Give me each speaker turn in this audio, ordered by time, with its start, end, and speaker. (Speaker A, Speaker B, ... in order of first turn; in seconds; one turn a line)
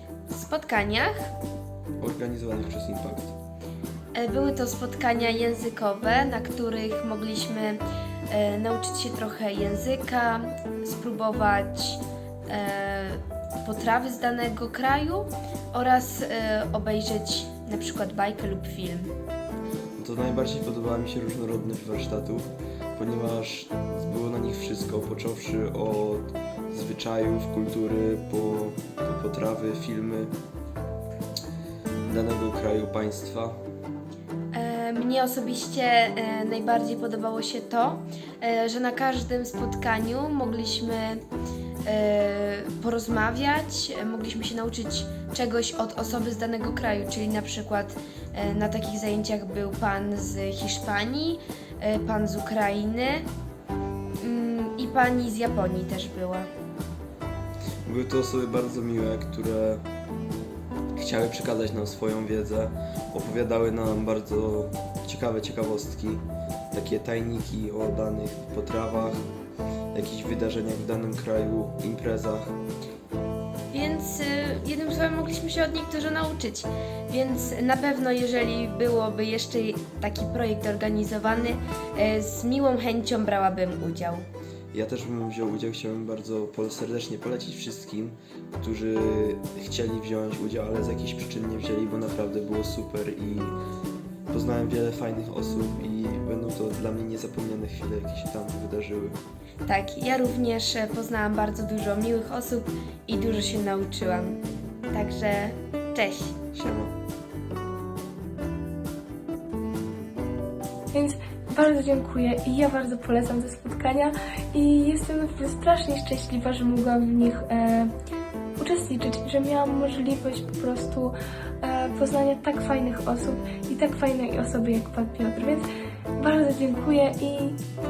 Speaker A: 0.3-1.3
Speaker B: 2.0-3.3
Speaker A: 4.2-19.1
Speaker B: 20.0-30.3
Speaker B: 32.0-33.6
Speaker A: 34.5-41.2
Speaker A: 41.9-53.3
Speaker A: 54.2-56.5
Speaker B: 57.9-59.8
Speaker B: 61.0-69.2
Speaker B: 69.9-72.6
Speaker A: 73.7-84.3
Speaker B: 84.7-93.6
Speaker B: 94.3-99.2
Speaker A: 99.7-106.3
Speaker B: 106.5-106.9
Speaker C: 110.9-117.9
Speaker C: 118.6-125.7
Speaker C: 126.2-127.6